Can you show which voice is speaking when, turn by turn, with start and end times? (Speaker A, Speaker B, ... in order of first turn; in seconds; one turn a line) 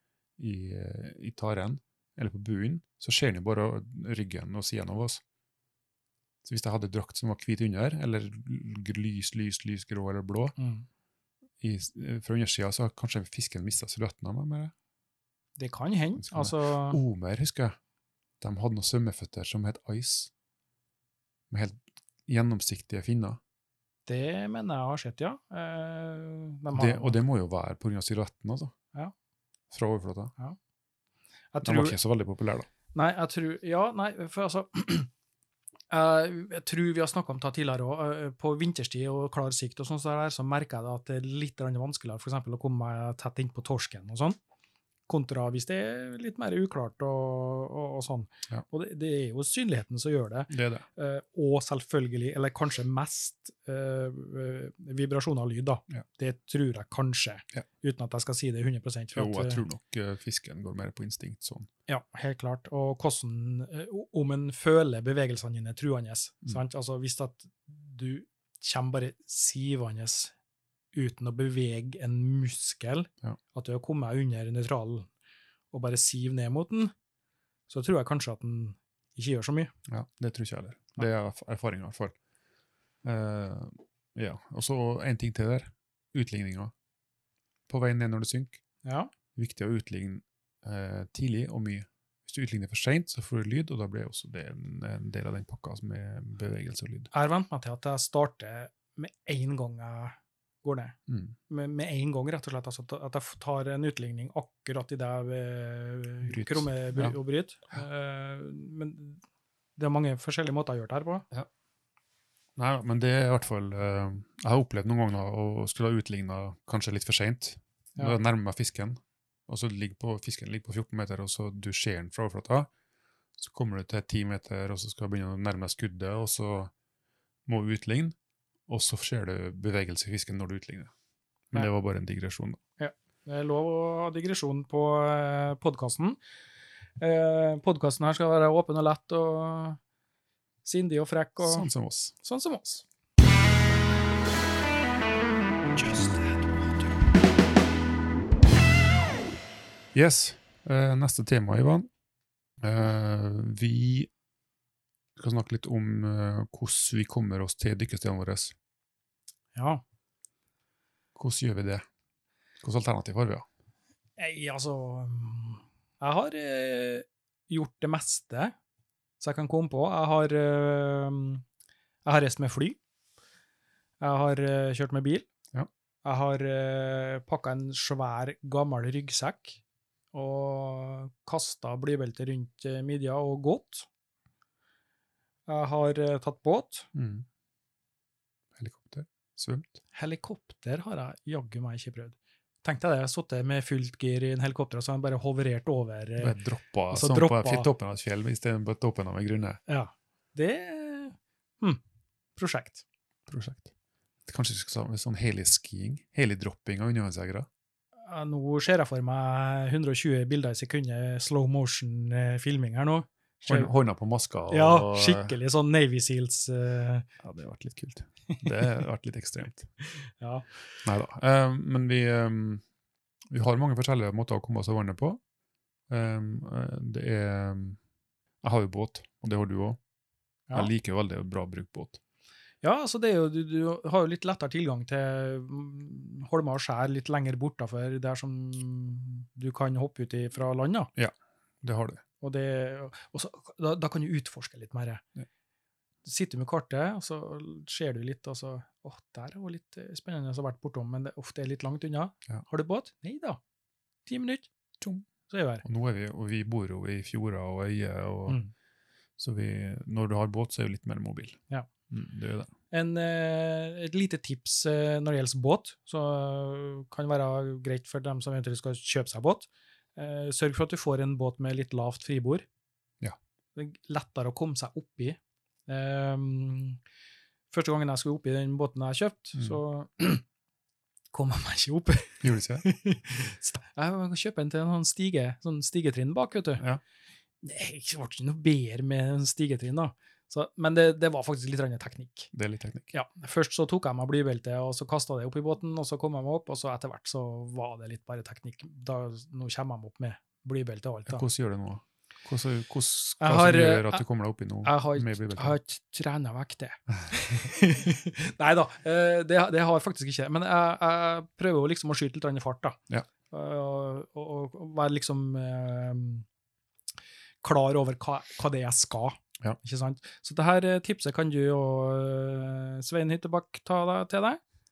Speaker A: 0.4-5.2
Speaker A: 6.4-10.6
Speaker B: 10.6-10.9
Speaker A: 11.6-14.7
Speaker B: 15.6-17.0
Speaker A: 16.2-17.8
Speaker A: 18.4-20.3
Speaker A: 21.5-23.4
Speaker B: 24.1-27.2
Speaker A: 26.7-28.7
Speaker A: 29.7-30.3
Speaker B: 31.5-32.0
Speaker A: 31.6-32.7
Speaker B: 32.9-35.1
Speaker B: 35.9-44.4
Speaker B: 45.1-59.6
Speaker A: 50.5-50.9
Speaker A: 59.1-61.7
Speaker B: 61.9-70.3
Speaker B: 70.9-75.1
Speaker B: 75.7-76.9
Speaker B: 77.7-79.7
Speaker A: 79.9-82.2
Speaker A: 83.0-86.7
Speaker A: 87.7-88.6
Speaker B: 88.8-89.1
Speaker A: 89.3-97.1
Speaker B: 97.1-101.0
Speaker A: 101.1-101.3
Speaker B: 101.5-109.2
Speaker A: 106.3-107.2
Speaker B: 109.8-111.3
Speaker A: 112.6-122.7
Speaker A: 123.4-126.7
Speaker A: 127.5-128.2
Speaker A: 128.7-130.9
Speaker A: 131.5-132.6
Speaker B: 132.8-136.2
Speaker B: 137.0-139.8
Speaker B: 140.7-141.7
Speaker A: 141.4-142.1
Speaker B: 142.2-142.8
Speaker B: 145.8-147.0
Speaker A: 149.9-151.9
Speaker A: 152.6-154.1
Speaker A: 155.2-158.6
Speaker B: 159.6-159.8
Speaker A: 161.2-161.8
Speaker A: 162.6-163.5
Speaker B: 164.2-168.5
Speaker B: 169.2-171.4
Speaker B: 172.1-172.8
Speaker B: 174.0-175.3
Speaker B: 176.0-179.6
Speaker B: 180.1-183.9
Speaker B: 185.5-186.9
Speaker A: 186.9-187.3
Speaker A: 188.6-189.8
Speaker B: 189.9-196.3
Speaker A: 196.2-199.6
Speaker B: 196.9-197.7
Speaker B: 199.7-201.8
Speaker B: 202.4-202.8
Speaker A: 203.3-203.7
Speaker A: 204.3-207.5
Speaker B: 208.1-213.7
Speaker A: 213.4-215.4
Speaker B: 214.5-217.1
Speaker A: 217.2-219.7
Speaker B: 219.8-220.5
Speaker A: 220.8-222.6
Speaker A: 223.3-225.2
Speaker A: 225.9-227.8
Speaker A: 228.4-229.8
Speaker A: 230.5-232.0
Speaker B: 232.6-240.9
Speaker A: 241.0-242.0
Speaker B: 242.2-245.0
Speaker B: 246.1-253.4
Speaker B: 254.1-254.5
Speaker A: 254.8-255.1
Speaker B: 255.3-255.6
Speaker A: 255.6-258.4
Speaker A: 259.2-261.4
Speaker A: 261.9-262.5
Speaker B: 262.7-272.4
Speaker B: 273.6-276.8
Speaker B: 277.5-280.2
Speaker B: 281.1-286.6
Speaker A: 282.2-282.7
Speaker B: 287.4-292.3
Speaker A: 292.3-292.9
Speaker B: 292.9-301.2
Speaker A: 301.1-305.6
Speaker B: 303.2-304.0
Speaker B: 304.6-312.8
Speaker B: 313.3-316.3
Speaker B: 317.4-324.4